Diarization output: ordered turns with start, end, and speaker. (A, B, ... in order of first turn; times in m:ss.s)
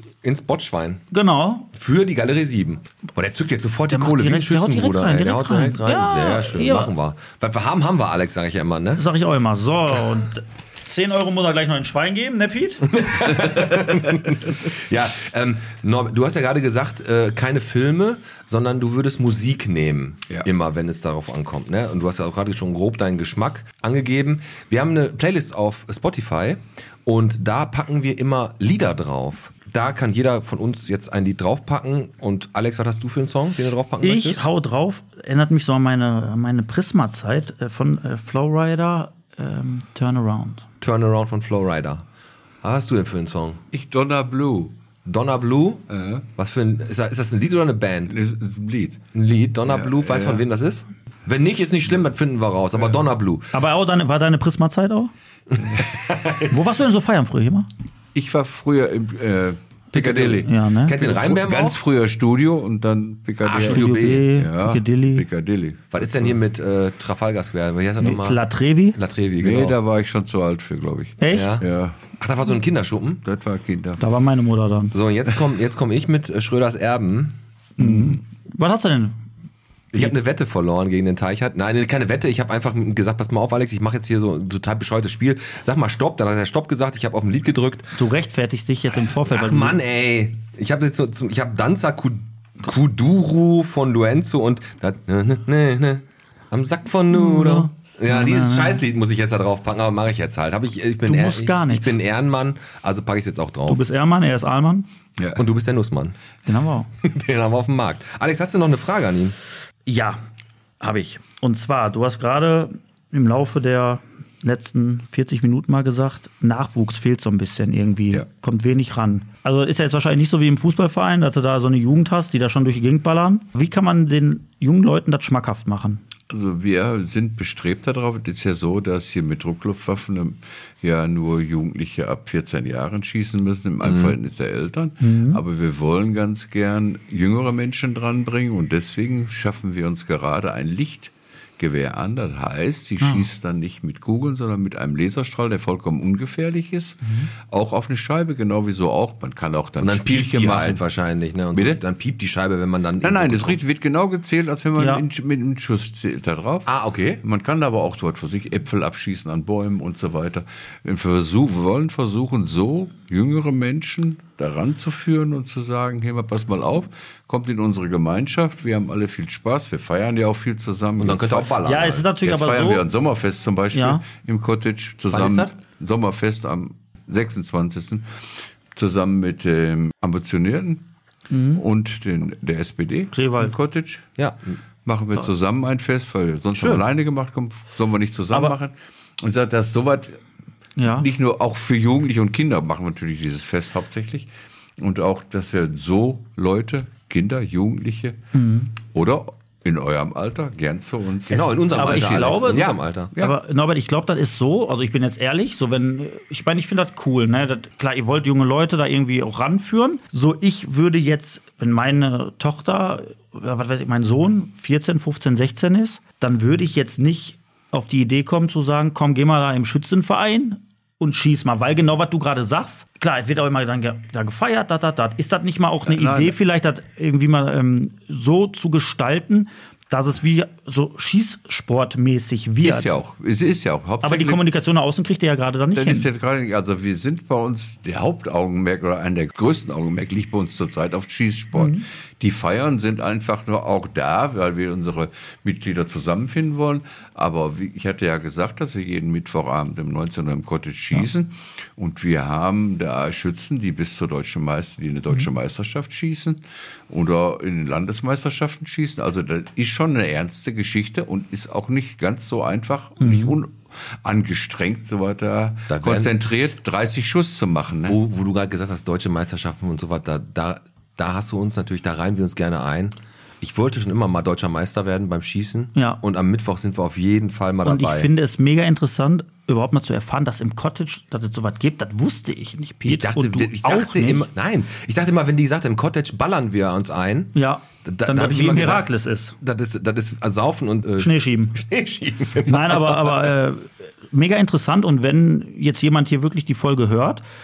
0:00.2-0:01.0 A
0:01.1-0:01.7 B
0:01.7-0:09.1 A
0:03.9-0:06.9 B
0:09.0-0:12.9 B
0:12.9-0:34.5 A
0:34.0-0:40.6 B
0:40.8-0:42.0 A
0:42.6-0:43.6 A
0:43.7-0:44.7 C
0:45.0-0:45.8 A
0:45.9-0:46.2 C
0:46.4-0:48.1 A
0:48.1-0:49.0 C
0:49.1-0:53.5 A
0:49.7-0:50.4 C
0:53.5-0:55.1 B
0:55.6-0:56.5 A
0:56.5-0:57.7 B
0:58.2-1:06.4 C
0:59.9-1:01.8 A
1:00.4-1:01.1 B
1:03.4-1:04.2 A
1:03.6-1:05.2 B
1:05.9-1:08.4 A
1:08.0-1:09.0 B
1:08.9-1:09.8 A
1:09.4-1:12.0 C
1:11.2-1:11.5 B
1:11.3-1:13.2 A
1:13.2-1:14.0 C
1:14.0-1:15.0 B
1:14.9-1:17.4 A
1:17.8-1:18.2 C
1:17.8-1:19.2 B
1:19.9-1:28.0 A
1:28.0-1:29.8 B
1:29.2-1:43.8 A
1:37.1-1:38.8 B
1:41.1-1:42.0 B
1:43.7-1:44.9 B
1:45.2-1:45.4 C
1:45.4-1:46.2 A
1:46.5-1:46.9 B
1:47.0-1:49.4 A
1:49.9-1:50.2 B
1:50.8-2:06.0 B
2:06.3-2:30.8 C
2:13.8-2:14.2 A
2:15.0-2:15.4 B
2:23.0-2:23.3 B
2:27.0-2:27.3 B
2:29.8-2:33.6 A
2:31.5-2:31.8 C
2:33.0-2:36.7 C
2:34.8-2:35.0 B
2:36.7-2:37.2 A
2:37.2-2:51.6 C
2:51.0-2:52.1 A
2:51.6-2:52.9 B
2:52.2-2:58.1 C
2:53.7-2:54.0 B
2:55.1-2:55.5 A
2:58.7-3:00.8 C
3:01.3-3:01.6 B
3:01.6-3:04.1 C
3:03.1-3:03.5 B
3:04.8-3:10.2 C
3:06.5-3:06.9 A
3:10.8-3:11.1 B
3:10.9-3:18.2 C
3:18.3-3:18.7 B
3:18.8-3:23.4 C
3:21.3-3:23.1 A
3:21.3-3:52.9 B
3:45.8-3:46.4 C
3:52.6-3:54.4 C
3:54.0-3:56.1 B
3:55.7-4:28.0 C
4:01.5-4:01.8 B
4:23.0-4:23.4 B
4:25.7-4:26.1 A
4:27.9-4:38.1 A
4:37.6-4:44.3 B
4:42.9-4:53.3 A
4:47.4-4:49.4 B
4:51.0-4:51.6 B
4:52.4-4:57.2 B